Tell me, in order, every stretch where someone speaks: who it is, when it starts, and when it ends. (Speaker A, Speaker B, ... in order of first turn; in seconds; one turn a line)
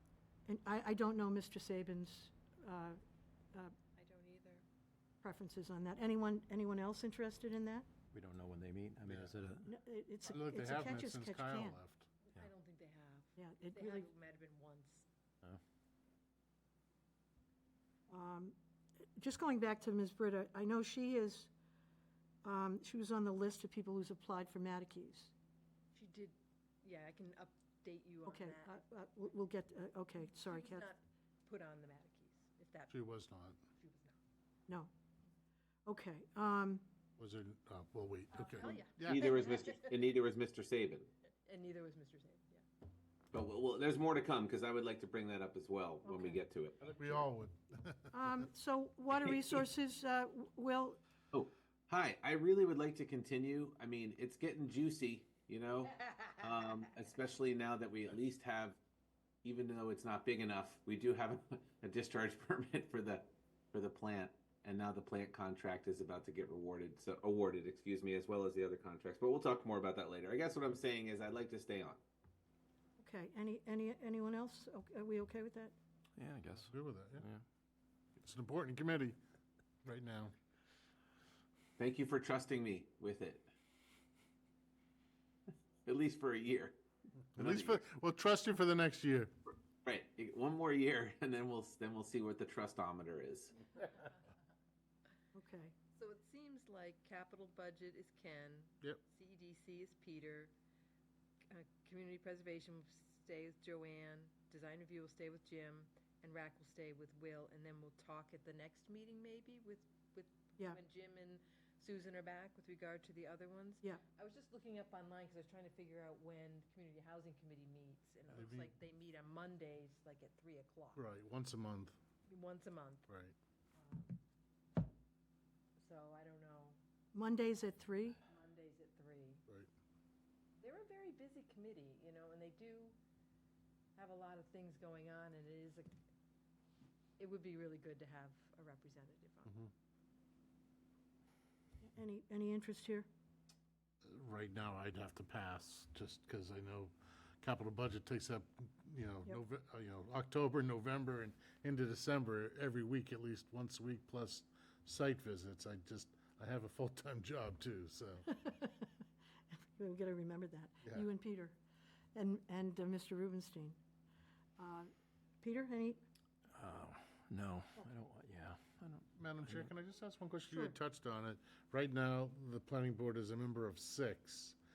Speaker A: 0.5-3.0
Speaker B: 4.0-4.7
Speaker A: 5.2-7.9
Speaker C: 8.1-9.7
Speaker A: 9.6-11.8
Speaker D: 10.3-12.1
Speaker B: 12.2-15.1
Speaker A: 13.4-14.1
Speaker A: 18.1-18.6
Speaker A: 19.2-21.5
Speaker A: 22.4-25.3
Speaker B: 25.9-28.9
Speaker A: 28.3-30.9
Speaker B: 30.2-33.2
Speaker D: 32.9-33.6
Speaker B: 33.8-34.2
Speaker A: 35.9-36.9
Speaker D: 37.2-39.4
Speaker B: 38.4-40.2
Speaker E: 39.0-41.1
Speaker B: 41.5-42.6
Speaker E: 43.3-47.3
Speaker A: 46.1-46.3
Speaker D: 46.9-48.3
Speaker A: 48.1-51.0
Speaker E: 51.3-58.8
Speaker E: 59.4-72.0
Speaker A: 73.0-75.8
Speaker C: 76.2-77.4
Speaker D: 76.6-77.3
Speaker D: 78.2-79.2
Speaker D: 79.8-80.3
Speaker E: 81.8-83.5
Speaker E: 85.8-86.8
Speaker D: 87.4-89.3
Speaker E: 87.4-87.8
Speaker E: 89.8-94.0
Speaker A: 95.3-95.8
Speaker B: 95.9-100.5
Speaker B: 101.5-121.0
Speaker D: 118.3-118.7
Speaker D: 121.0-122.0
Speaker B: 122.3-123.1
Speaker D: 123.1-123.3
Speaker B: 123.8-124.2
Speaker B: 125.8-126.8
Speaker A: 127.1-128.2
Speaker B: 128.3-129.4
Speaker B: 130.6-133.0
Speaker B: 134.0-135.9
Speaker B: 137.2-139.6
Speaker A: 141.9-143.1
Speaker D: 144.1-158.3
Speaker A: 158.3-158.9
Speaker A: 159.5-161.6
Speaker A: 162.2-163.8
Speaker A: 164.6-166.0
Speaker C: 166.6-169.7
Speaker D: 169.2-174.6